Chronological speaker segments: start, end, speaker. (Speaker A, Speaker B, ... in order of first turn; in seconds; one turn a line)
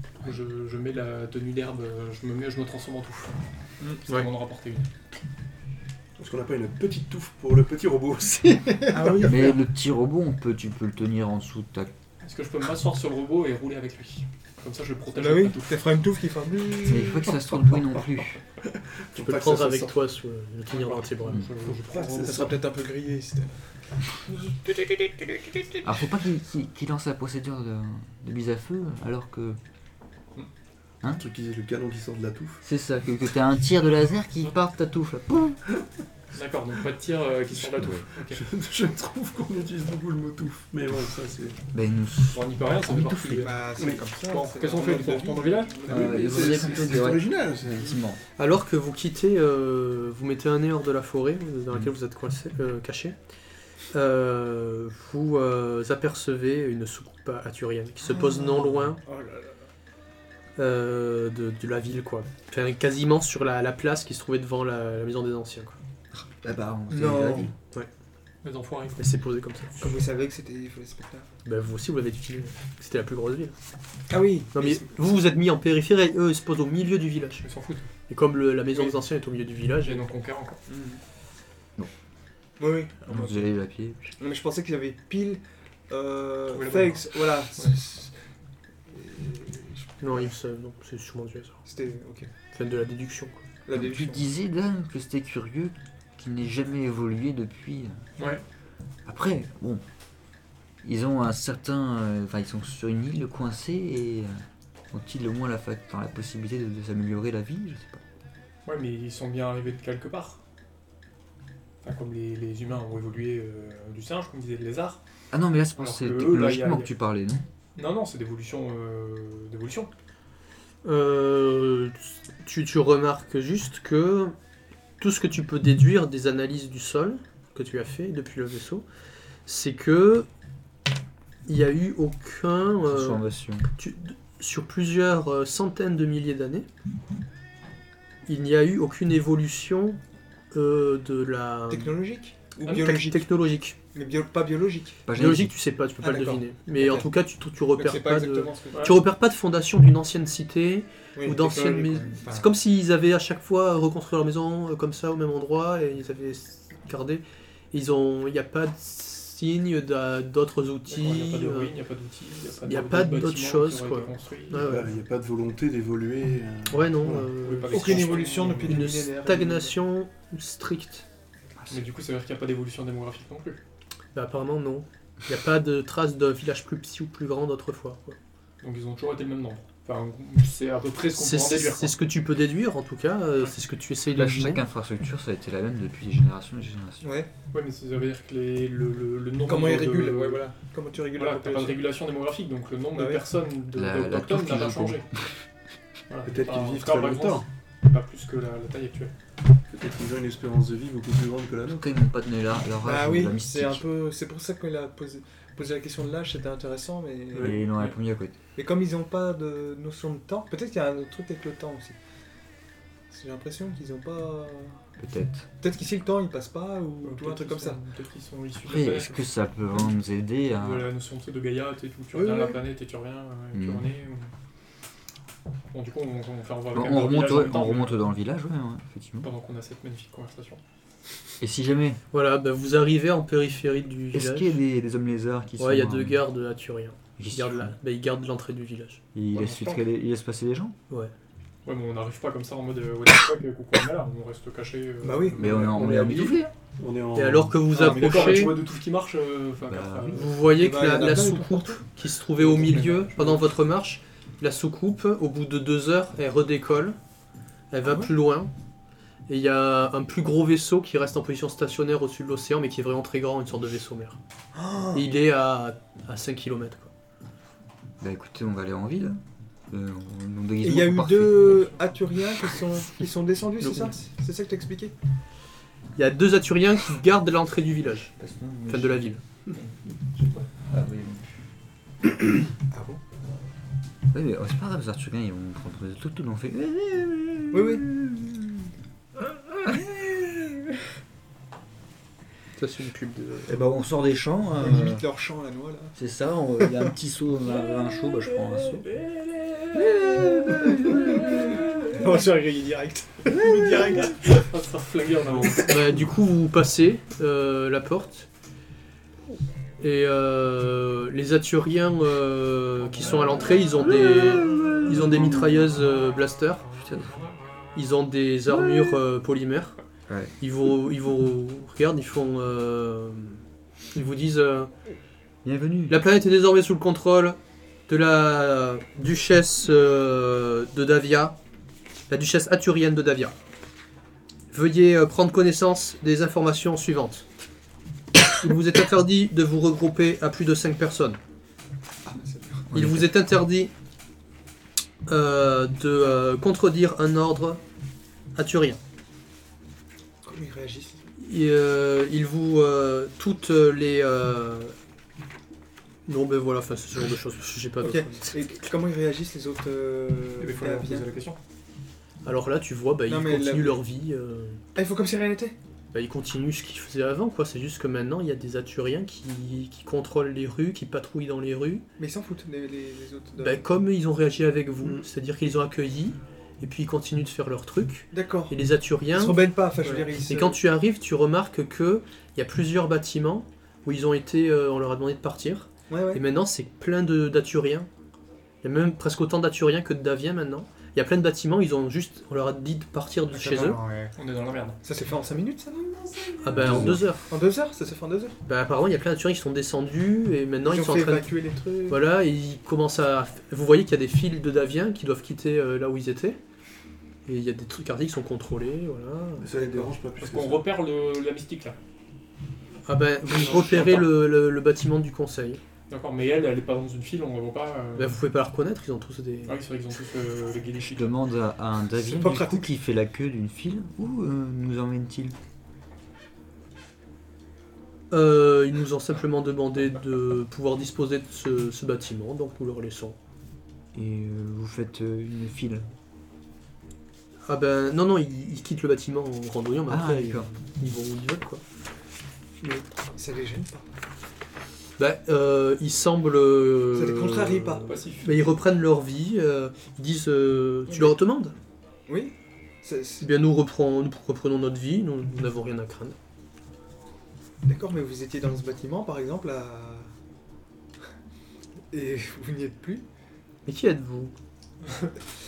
Speaker A: 0.2-3.3
Speaker A: 4.0-4.9
Speaker B: 6.2-9.5
Speaker C: 8.9-9.6
Speaker D: 9.2-11.9
Speaker A: 12.2-15.8
Speaker C: 15.1-17.8
Speaker D: 16.9-18.4
Speaker B: 18.7-20.0
Speaker E: 19.2-21.4
Speaker A: 20.7-22.3
Speaker B: 21.6-22.6
Speaker C: 21.9-23.6
Speaker C: 24.3-25.9
Speaker D: 25.8-29.6
Speaker B: 31.1-32.6
Speaker D: 32.6-35.6
Speaker A: 36.3-38.4
Speaker B: 38.3-41.6
Speaker D: 41.7-43.5
Speaker A: 42.3-46.7
Speaker C: 43.4-46.9
Speaker B: 43.8-44.1
Speaker B: 45.9-48.0
Speaker D: 45.9-48.2
Speaker E: 48.4-53.2
Speaker E: 53.9-59.0
Speaker C: 58.1-59.5
Speaker E: 60.6-65.8
Speaker D: 66.1-67.5
Speaker C: 66.9-67.5
Speaker A: 68.4-69.0
Speaker E: 69.0-69.8
Speaker C: 69.8-71.3
Speaker E: 71.5-73.5
Speaker C: 74.1-74.9
Speaker E: 74.5-77.5
Speaker A: 77.4-77.9
Speaker E: 78.1-80.0
Speaker A: 79.8-80.6
Speaker C: 80.7-81.0
Speaker C: 82.6-83.5
Speaker D: 83.1-84.2
Speaker C: 84.2-88.1
Speaker A: 86.5-87.8
Speaker C: 88.9-90.3
Speaker E: 90.0-91.6
Speaker C: 91.7-92.3
Speaker E: 92.5-93.4
Speaker C: 93.7-94.3
Speaker D: 93.7-98.0
Speaker A: 98.2-98.4
Speaker D: 99.1-99.8
Speaker D: 100.8-104.4
Speaker D: 104.9-108.0
Speaker A: 108.7-110.4
Speaker A: 111.8-115.0
Speaker D: 115.3-117.5
Speaker A: 115.8-116.9
Speaker A: 117.8-119.9
Speaker E: 120.8-124.3
Speaker E: 125.0-128.8
Speaker E: 129.5-130.3
Speaker E: 131.5-133.2
Speaker D: 132.8-133.7
Speaker E: 133.8-136.7
Speaker E: 138.3-140.0
Speaker E: 140.5-141.9
Speaker C: 141.7-143.3
Speaker E: 142.7-143.8
Speaker C: 143.9-145.0
Speaker D: 145.1-145.5
Speaker E: 145.2-161.7
Speaker C: 146.0-147.1
Speaker C: 147.7-149.0
Speaker A: 148.7-149.0
Speaker C: 151.2-152.6
Speaker A: 160.9-164.7
Speaker E: 162.7-164.9
Speaker B: 164.6-167.3
Speaker E: 166.7-171.1
Speaker A: 167.4-169.0
Speaker C: 167.7-169.8
Speaker A: 171.7-173.6
Speaker E: 174.2-178.2
Speaker A: 178.6-182.0
Speaker E: 181.1-184.6
Speaker D: 184.1-187.1
Speaker C: 187.0-187.3
Speaker A: 187.5-190.4
Speaker C: 189.4-191.9
Speaker A: 191.2-195.1
Speaker C: 192.9-193.3
Speaker D: 193.7-195.3
Speaker A: 196.1-199.1
Speaker B: 196.2-197.5
Speaker B: 199.7-201.9
Speaker D: 201.7-203.8
Speaker C: 202.8-207.6
Speaker D: 207.3-208.3
Speaker A: 207.4-207.9
Speaker C: 208.6-212.0
Speaker C: 213.1-214.8
Speaker D: 215.0-215.5
Speaker C: 215.6-217.8
Speaker A: 217.0-219.9
Speaker D: 218.6-220.9
Speaker A: 220.6-224.3
Speaker C: 222.1-222.6
Speaker D: 223.5-223.8
Speaker A: 225.7-228.1
Speaker D: 226.7-229.3
Speaker A: 229.2-230.6
Speaker D: 231.4-232.0
Speaker E: 232.1-234.6
Speaker D: 234.1-236.2
Speaker E: 235.6-239.0
Speaker D: 237.2-237.8
Speaker D: 239.1-240.8
Speaker A: 239.3-239.8
Speaker A: 241.7-246.4
Speaker C: 245.0-245.9
Speaker D: 245.4-246.5
Speaker B: 245.9-246.2
Speaker B: 246.8-248.7
Speaker E: 247.2-248.6
Speaker C: 247.7-248.5
Speaker A: 247.8-250.4
Speaker D: 249.7-250.3
Speaker E: 250.1-257.0
Speaker C: 250.5-251.8
Speaker A: 252.4-253.5
Speaker E: 257.7-258.5
Speaker E: 259.3-264.2
Speaker C: 264.5-265.1
Speaker E: 264.9-266.9
Speaker D: 268.0-271.7
Speaker C: 270.6-274.9
Speaker E: 273.6-274.0
Speaker E: 276.0-278.1
Speaker D: 278.2-279.1
Speaker E: 278.7-279.2
Speaker D: 280.2-281.3
Speaker C: 282.7-283.0
Speaker D: 284.1-288.7
Speaker C: 287.5-287.9
Speaker D: 289.6-290.6
Speaker E: 292.6-293.6
Speaker D: 293.5-295.0
Speaker C: 294.6-295.9
Speaker D: 296.0-298.9
Speaker C: 296.6-296.9
Speaker A: 299.0-299.7
Speaker D: 299.8-301.4
Speaker C: 300.8-304.4
Speaker A: 304.0-306.0
Speaker E: 305.6-308.3
Speaker E: 309.8-316.7
Speaker A: 313.0-313.6
Speaker D: 313.8-315.7
Speaker D: 316.8-317.1
Speaker E: 317.8-319.8
Speaker D: 320.1-320.3
Speaker E: 320.4-323.4
Speaker E: 323.9-324.7
Speaker D: 325.4-326.0
Speaker E: 325.9-331.4
Speaker E: 332.1-333.4
Speaker E: 334.5-337.2
Speaker E: 338.4-341.2
Speaker C: 342.1-342.7
Speaker E: 342.7-343.7
Speaker D: 342.7-343.1
Speaker E: 345.1-347.6
Speaker E: 348.4-348.8
Speaker C: 350.2-351.0
Speaker E: 351.2-354.8
Speaker E: 356.1-358.4
Speaker C: 357.8-361.1
Speaker A: 360.4-361.4
Speaker E: 362.2-364.6
Speaker C: 363.1-363.8
Speaker C: 364.8-365.6
Speaker E: 365.9-371.9
Speaker C: 372.0-373.7
Speaker E: 373.4-387.9
Speaker C: 378.1-378.5
Speaker C: 379.1-380.6
Speaker C: 385.9-386.2
Speaker E: 388.6-393.8
Speaker C: 393.3-394.2
Speaker A: 394.2-394.8
Speaker C: 394.8-398.4
Speaker E: 396.4-397.3
Speaker B: 396.6-396.9
Speaker D: 396.7-397.0
Speaker E: 398.5-401.3
Speaker C: 400.6-402.0
Speaker E: 401.9-406.4
Speaker E: 407.3-409.9
Speaker B: 409.4-410.7
Speaker A: 410.2-411.8
Speaker E: 412.9-415.6
Speaker A: 413.4-414.0
Speaker A: 415.9-418.2
Speaker E: 418.0-419.6
Speaker A: 419.5-421.1
Speaker D: 420.8-425.4
Speaker C: 421.9-422.7
Speaker E: 428.1-433.2
Speaker D: 433.9-435.9
Speaker E: 437.5-441.6
Speaker D: 439.9-440.5
Speaker C: 442.6-443.9
Speaker E: 445.0-451.6
Speaker C: 446.9-448.0
Speaker A: 447.9-448.6
Speaker C: 450.9-451.2
Speaker C: 452.1-453.2
Speaker E: 453.2-456.2
Speaker C: 457.7-460.1
Speaker C: 461.9-463.1
Speaker E: 463.7-464.3